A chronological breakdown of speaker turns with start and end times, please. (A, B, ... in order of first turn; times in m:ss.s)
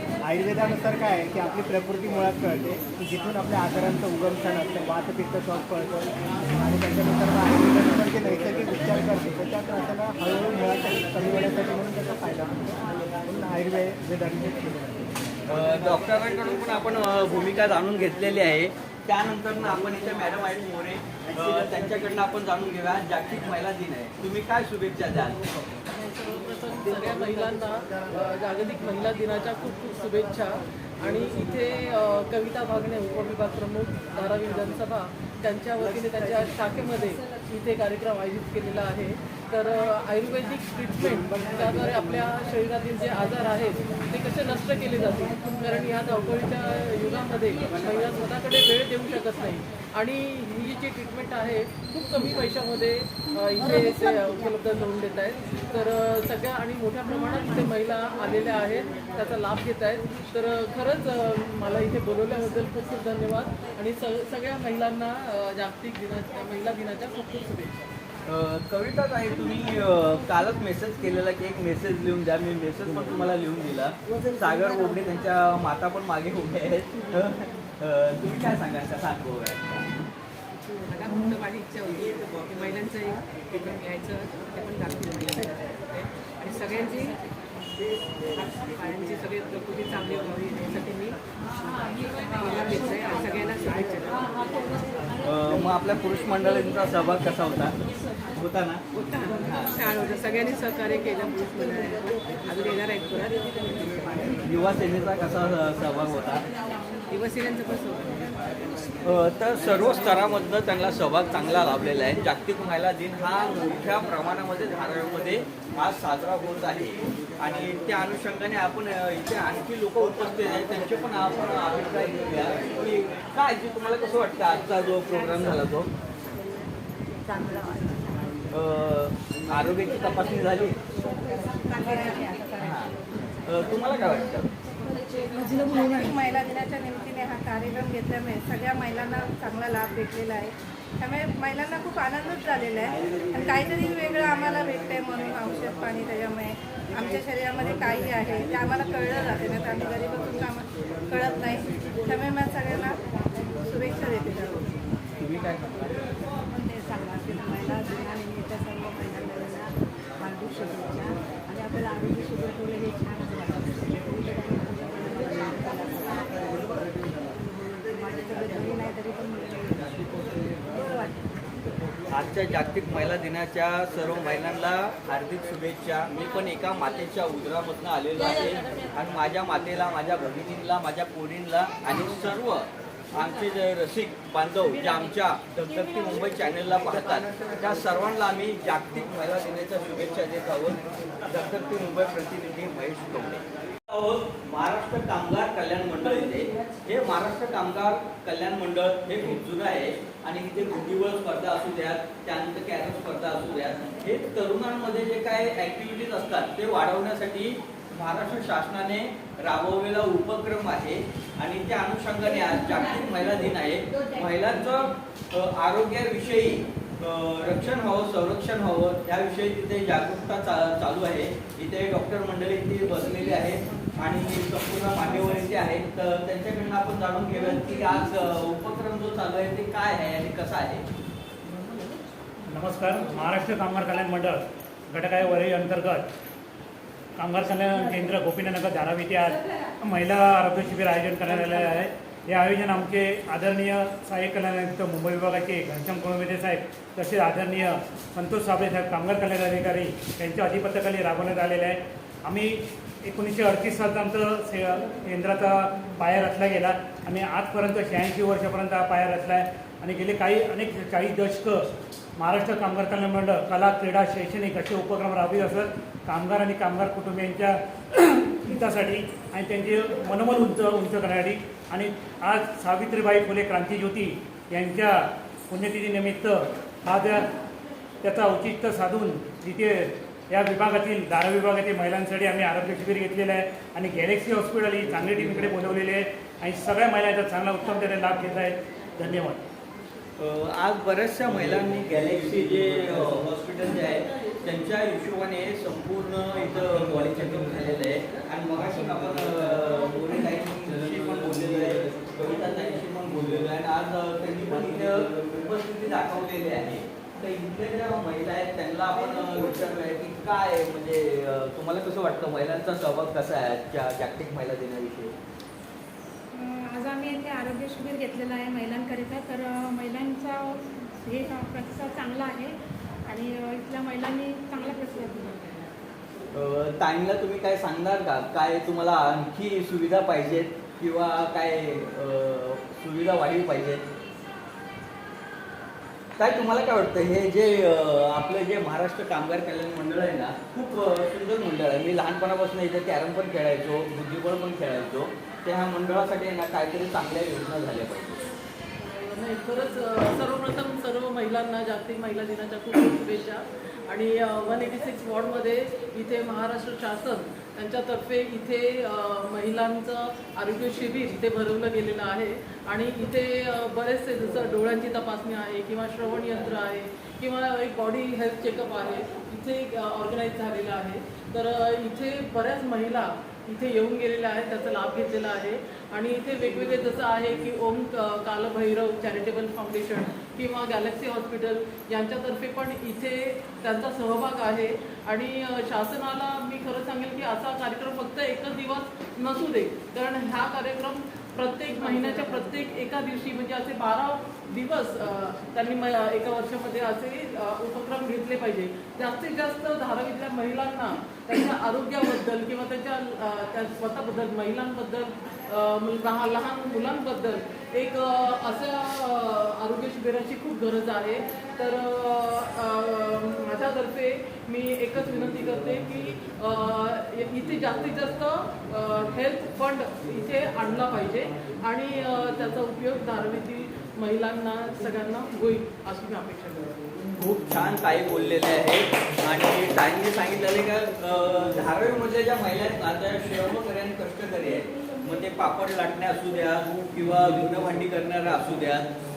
0:00.2-0:15.0 A
0:15.5-0:25.4 B
0:25.9-1:07.8 C
1:08.3-1:19.9 B
1:20.6-1:27.2 D
1:28.4-1:34.4 D
1:35.2-1:37.8 B
1:38.3-1:38.8 B
1:38.9-1:44.3 D
1:39.5-1:39.7 B
1:44.4-1:46.4 B
1:47.1-1:48.4 D
1:49.0-2:05.9 B
2:07.2-2:08.2 E
2:08.5-2:10.8 B
2:11.2-2:12.8 E
2:12.6-2:14.5 B
2:15.4-2:15.8 F
2:15.5-2:34.6 G
2:35.2-2:51.3 E
2:52.1-3:50.8 B
3:52.5-3:56.1 H
3:57.2-4:21.7 H
4:22.2-4:37.3 H
4:38.0-4:49.4 H
4:50.2-5:15.2 B
5:16.3-5:22.6 F
5:23.1-5:25.5 F
5:26.3-5:33.8 B
5:36.2-5:48.3 B
5:48.8-7:06.7 C
7:07.2-7:18.9 B